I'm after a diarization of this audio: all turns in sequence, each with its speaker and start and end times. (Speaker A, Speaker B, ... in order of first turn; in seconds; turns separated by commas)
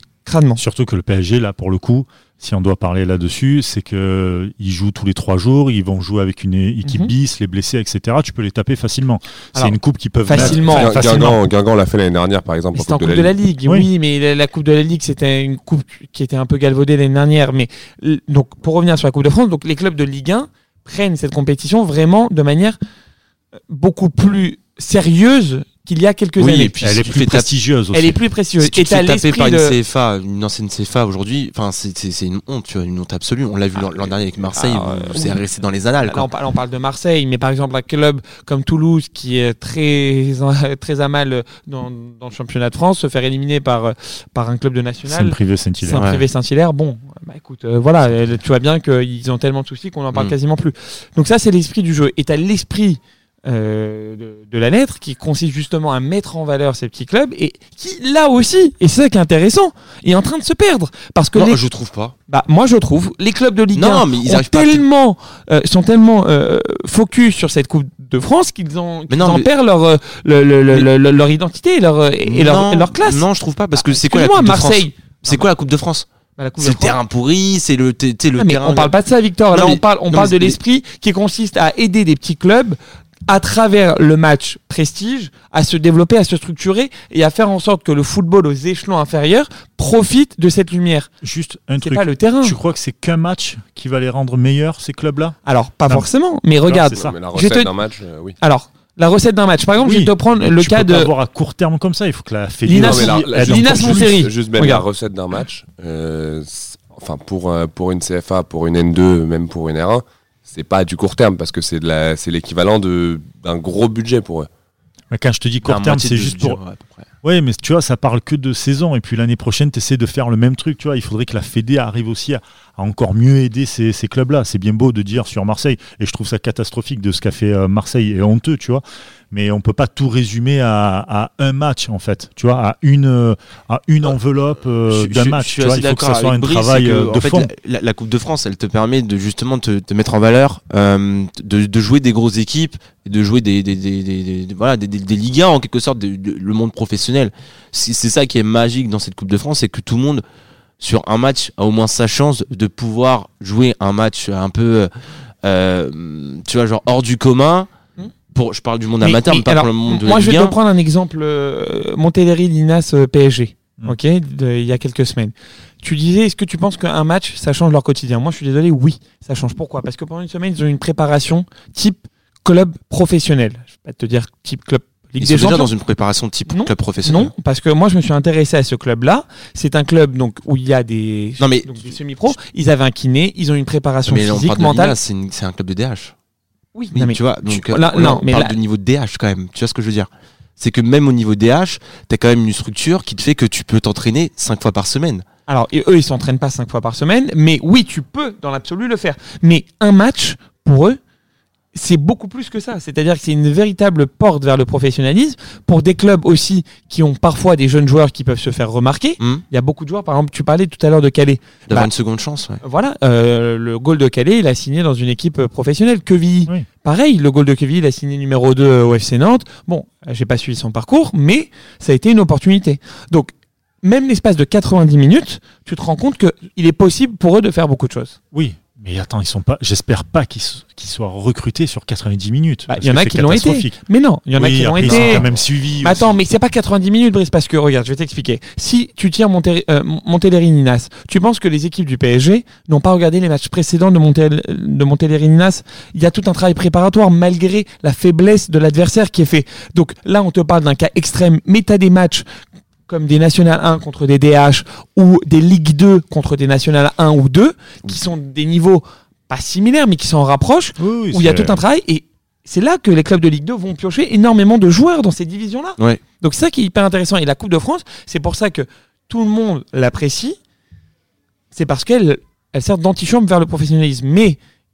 Speaker A: 0.2-0.6, Speaker B: 0.6-11.4, Speaker A: 6.8-7.1, Speaker A: 9.5-10.9, Speaker C: 10.3-13.3, Speaker A: 12.7-22.8, Speaker A: 23.7-27.0, Speaker D: 26.4-27.5, Speaker B: 26.8-28.2, Speaker A: 27.9-29.8, Speaker D: 28.6-36.3, Speaker A: 34.6-35.4, Speaker A: 36.0-61.6, Speaker B: 45.1-46.0, Speaker D: 45.9-46.2, Speaker D: 61.3-62.1, Speaker A: 62.3-73.2, Speaker D: 63.7-64.8, Speaker D: 69.1-69.5, Speaker D: 72.2-76.0, Speaker A: 73.8-75.5, Speaker A: 76.4-77.0, Speaker D: 76.6-78.9, Speaker A: 78.4-91.1, Speaker D: 79.5-80.6, Speaker B: 91.2-96.1, Speaker A: 91.8-92.6, Speaker A: 95.4-97.7, Speaker B: 96.7-97.1, Speaker C: 96.9-98.4, Speaker A: 98.4-101.1, Speaker B: 99.8-104.2, Speaker A: 102.6-104.8, Speaker C: 102.7-114.5, Speaker B: 115.1-116.6, Speaker D: 115.6-117.1, Speaker B: 117.2-137.5, Speaker D: 134.9-150.2, Speaker D: 150.8-154.9, Speaker D: 155.4-157.7, Speaker D: 158.3-160.6, Speaker A: 159.0-175.7, Speaker D: 175.2-177.3, Speaker A: 176.5-185.0, Speaker D: 181.4-181.9, Speaker D: 184.1-186.1, Speaker A: 186.7-188.6, Speaker D: 186.9-195.2, Speaker A: 195.5-201.0, Speaker A: 201.7-211.9, Speaker D: 211.7-212.6, Speaker A: 212.6-228.2, Speaker B: 228.3-233.8, Speaker A: 232.7-235.3, Speaker B: 234.4-236.2, Speaker D: 234.8-235.2, Speaker A: 235.8-252.2, Speaker A: 252.9-270.4, Speaker B: 260.8-261.6, Speaker A: 271.5-274.4